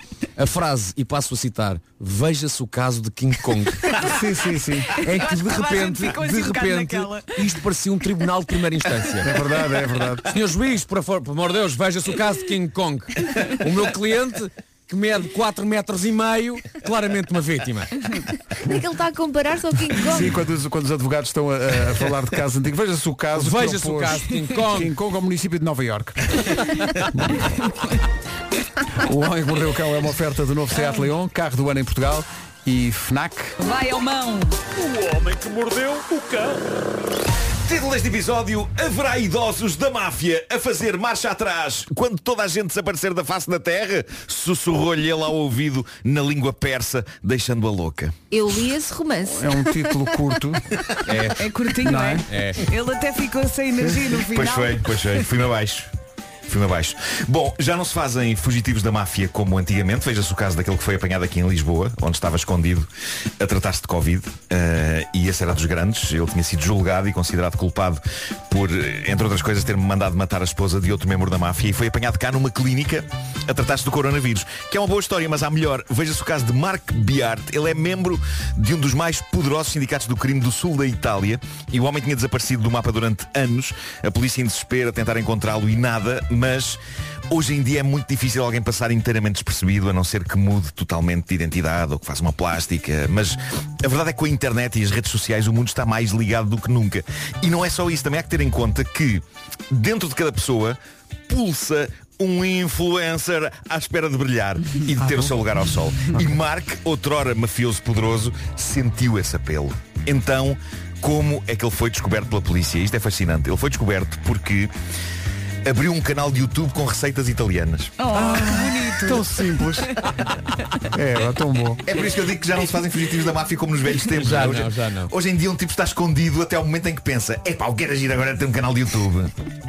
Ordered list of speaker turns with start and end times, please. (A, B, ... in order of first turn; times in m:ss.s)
0:00.4-0:04.1 A
0:04.0-0:05.0 B
0:05.0-0:09.4 A
0:05.0-0:07.6 C
0:09.2-0:10.3 B
0:10.3-0:18.0 A
0:18.6-0:20.4 D
0:20.0-0:26.6 B
0:23.3-0:24.9 A
0:27.1-0:27.5 B
0:29.0-0:33.6 B
0:30.8-0:31.1 C
0:33.6-0:34.6 C
0:37.6-0:48.2 E
0:48.3-0:50.0 D
0:49.2-0:50.6 B
0:51.1-0:51.5 A
0:51.4-0:55.2 C
0:51.8-0:52.3 B
0:52.3-0:52.6 A
0:53.8-0:54.2 B
0:54.3-0:55.9 E
0:56.5-1:02.9 E
1:03.4-1:54.7 E
1:45.0-1:45.5 B
1:55.6-1:58.0 E
1:58.0-1:59.3 C
1:58.1-2:00.0 B
2:00.9-2:01.9 B
2:01.9-2:09.3 E
2:04.1-2:05.1 A